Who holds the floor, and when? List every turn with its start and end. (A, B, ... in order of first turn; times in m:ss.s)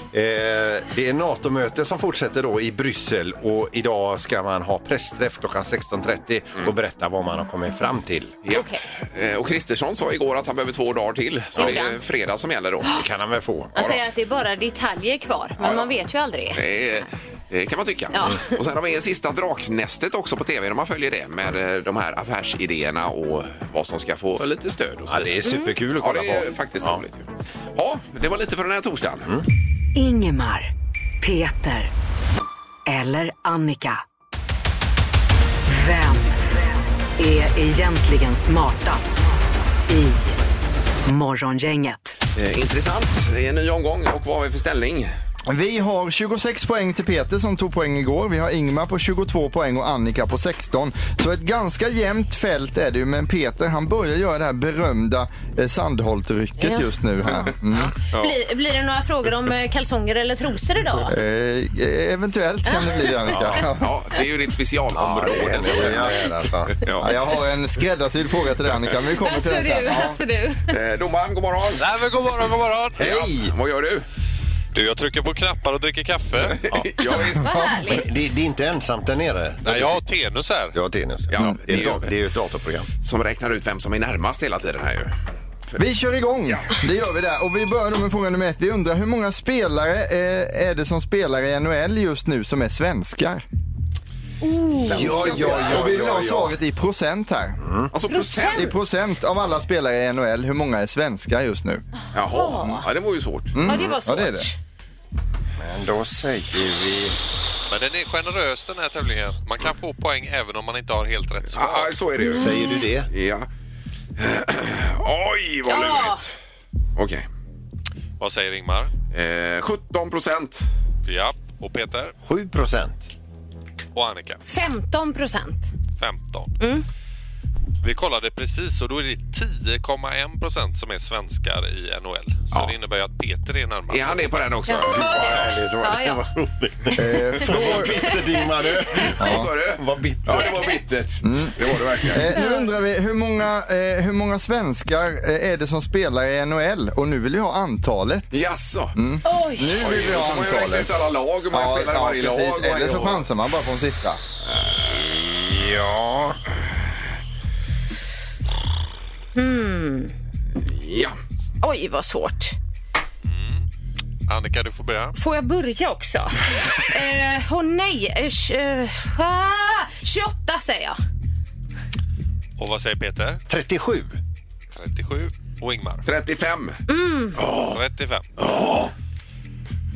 0:00.1-0:08.4 A
0:08.4-0:12.9 B
0:08.5-0:08.8 C
0:11.6-0:12.0 C
0:12.9-0:13.7 A
0:13.7-0:16.6 C
0:15.6-0:15.9 B
0:16.5-0:29.3 B
0:18.1-0:18.6 C
0:25.1-0:27.0 A
0:25.4-0:25.7 C
0:29.9-0:31.9 D
0:32.9-0:34.0 D
0:35.6-0:36.4 D
0:37.2-0:39.3 D
0:39.9-0:40.4 D
0:41.0-0:42.2 D
0:42.3-0:45.1 B
0:45.5-0:57.9 E
0:56.6-1:01.1 C
0:58.1-0:58.4 B
1:01.1-1:03.9 E
1:02.6-1:03.1 C
1:03.3-1:03.6 A
1:03.6-1:07.1 B
1:04.9-1:06.8 A
1:05.6-1:06.1 E
1:07.0-1:10.2 E
1:09.2-1:10.7 C
1:10.7-1:11.9 B
1:11.8-1:13.0 F
1:13.0-1:13.5 A
1:13.0-1:14.0 B
1:14.7-1:16.6 F
1:16.4-1:17.7 B
1:17.1-1:18.0 C
1:17.8-1:20.0 A
1:19.6-1:20.8 F
1:20.7-1:22.9 A
1:21.3-1:22.1 B
1:23.0-1:25.1 B
1:25.8-1:33.4 E
1:34.4-1:35.2 C
1:34.7-1:36.5 A
1:34.8-1:35.9 B
1:34.8-1:37.6 E
1:37.6-1:37.9 A
1:37.9-1:38.8 B
1:38.1-1:38.7 C
1:38.4-1:41.8 E
1:42.1-1:43.6 B
1:42.3-1:42.8 C
1:43.5-1:44.5 E
1:43.6-1:44.5 C
1:45.6-1:47.2 A
1:47.7-1:52.0 F
1:51.5-1:52.6 B
1:52.2-1:52.5 C
1:52.3-1:53.1 A
1:53.1-1:53.5 B
1:54.2-1:56.3 B
1:55.7-1:56.2 C
1:57.0-1:57.2 B
1:58.2-1:58.9 F
1:59.1-2:00.7 B
2:01.0-2:02.1 F
2:02.2-2:03.1 A
2:03.9-2:04.4 F
2:04.4-2:05.7 C
2:06.0-2:06.5 F
2:06.6-2:06.8 C
2:07.8-2:14.4 F
2:13.9-2:15.6 B
2:14.7-2:16.2 C
2:14.9-2:20.6 A
2:16.9-2:18.1 E
2:19.2-2:22.3 B
2:19.2-2:19.5 E
2:20.4-2:20.7 C
2:21.2-2:28.4 E
2:22.3-2:22.7 C
2:28.3-2:28.9 B
2:28.9-2:34.2 E
2:29.2-2:29.8 C
2:29.8-2:33.2 B
2:34.6-2:35.0 B
2:35.2-2:36.4 A
2:39.3-2:40.1 C
2:40.6-2:41.2 B
2:41.6-2:42.6 C
2:43.2-2:43.6 F
2:44.3-2:45.1 F
2:45.1-2:51.0 C
2:52.6-2:53.4 F
2:53.5-2:54.2 A
2:54.8-2:56.0 F
2:56.0-2:56.8 B
2:56.9-2:57.4 C
2:57.4-2:57.8 B
2:57.6-2:58.3 F
2:58.4-2:58.9 B